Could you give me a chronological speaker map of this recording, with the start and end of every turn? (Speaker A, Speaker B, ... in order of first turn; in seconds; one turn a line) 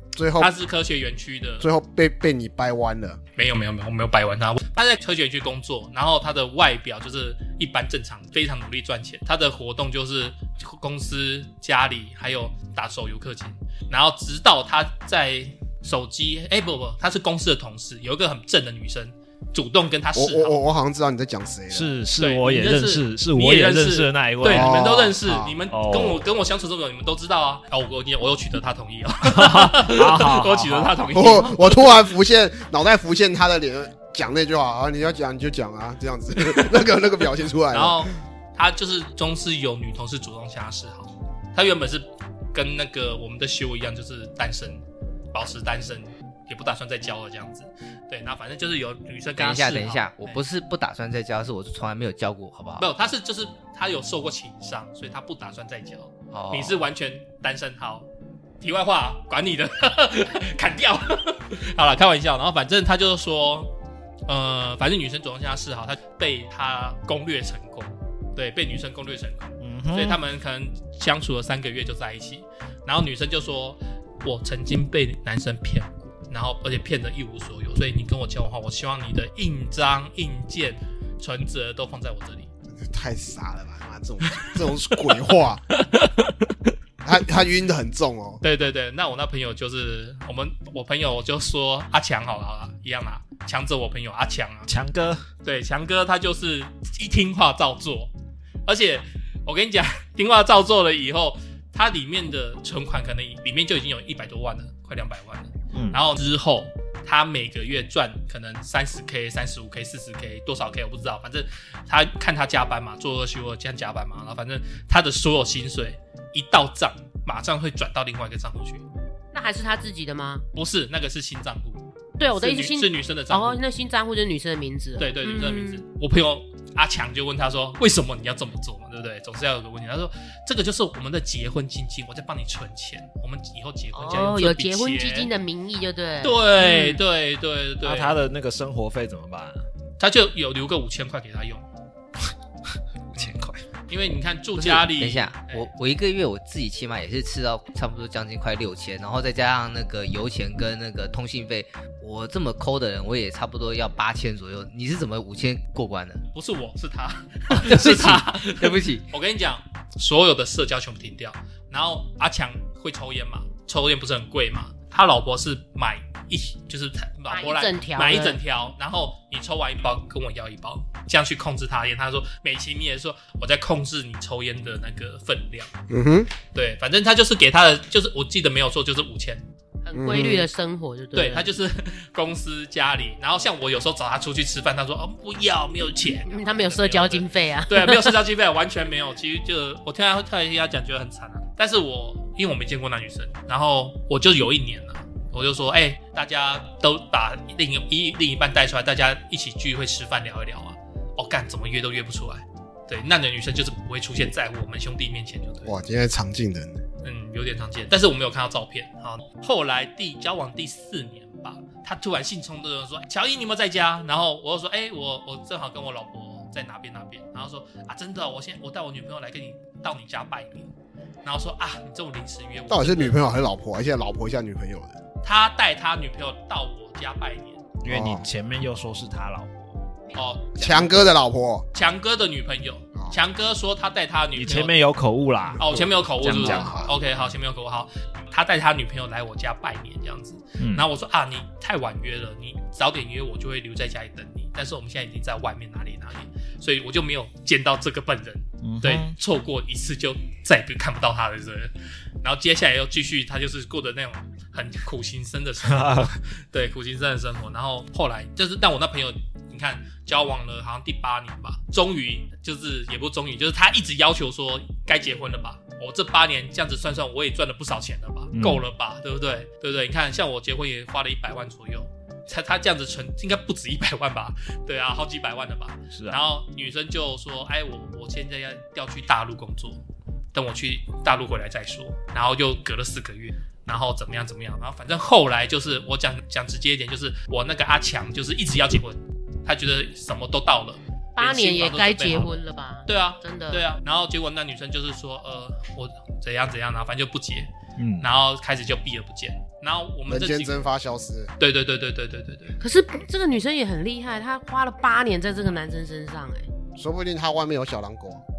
Speaker A: 0.1-0.5
Speaker B: 0.4-1.7
Speaker A: 1.6-3.2
Speaker B: 3.4-20.6
Speaker A: 20.1-21.9
Speaker C: 21.7-25.0
Speaker B: 22.2-31.9
Speaker A: 24.4-25.6
Speaker C: 25.7-26.2
Speaker C: 29.2-31.1
Speaker A: 31.1-38.1
Speaker B: 37.7-50.4
Speaker D: 49.4-52.9
Speaker B: 52.8-58.1
Speaker D: 56.3-56.8
Speaker B: 58.6-63.7
Speaker B: 64.3-82.5
Speaker C: 69.6-70.2
Speaker A: 82.7-85.6
Speaker B: 85.9-86.2
Speaker A: 87.0-88.4
Speaker B: 88.4-94.7
Speaker C: 94.7-95.2
Speaker B: 95.4-98.1
Speaker B: 98.7-118.8
Speaker C: 105.7-106.0
Speaker E: 119.3-120.4
Speaker B: 120.5-123.6
Speaker E: 122.2-125.8
Speaker B: 125.0-135.3
Speaker E: 133.9-137.0
Speaker B: 136.2-138.1
Speaker C: 137.8-139.6
Speaker B: 140.0-141.7
Speaker C: 143.1-143.6
Speaker B: 143.9-145.7
Speaker D: 144.6-156.2
Speaker B: 156.3-175.7
Speaker D: 157.5-159.1
Speaker E: 167.3-168.4
Speaker A: 175.9-176.3
Speaker B: 176.5-179.4
Speaker E: 179.8-181.5
Speaker A: 179.9-180.5
Speaker B: 181.1-205.8
Speaker E: 186.3-188.2
Speaker A: 205.6-206.8
Speaker B: 207.0-220.7
Speaker B: 221.2-223.2
Speaker A: 222.7-225.0
Speaker B: 225.2-227.7
Speaker C: 227.8-229.8
Speaker A: 227.9-228.2
Speaker B: 230.1-230.6
Speaker A: 230.6-231.7
Speaker C: 230.6-231.0
Speaker B: 231.7-234.7
Speaker A: 232.9-233.2
Speaker C: 234.3-236.9
Speaker B: 235.6-279.8
Speaker A: 236.3-236.9
Speaker C: 240.6-240.9
Speaker C: 248.6-249.1
Speaker C: 255.7-256.1
Speaker C: 268.3-268.7
Speaker C: 275.9-276.2
Speaker B: 280.3-292.4
Speaker E: 291.1-293.6
Speaker B: 292.9-297.5
Speaker C: 297.8-298.1
Speaker B: 298.0-300.6
Speaker A: 300.1-301.3
Speaker B: 301.4-302.6
Speaker E: 302.6-306.5
Speaker A: 306.8-308.2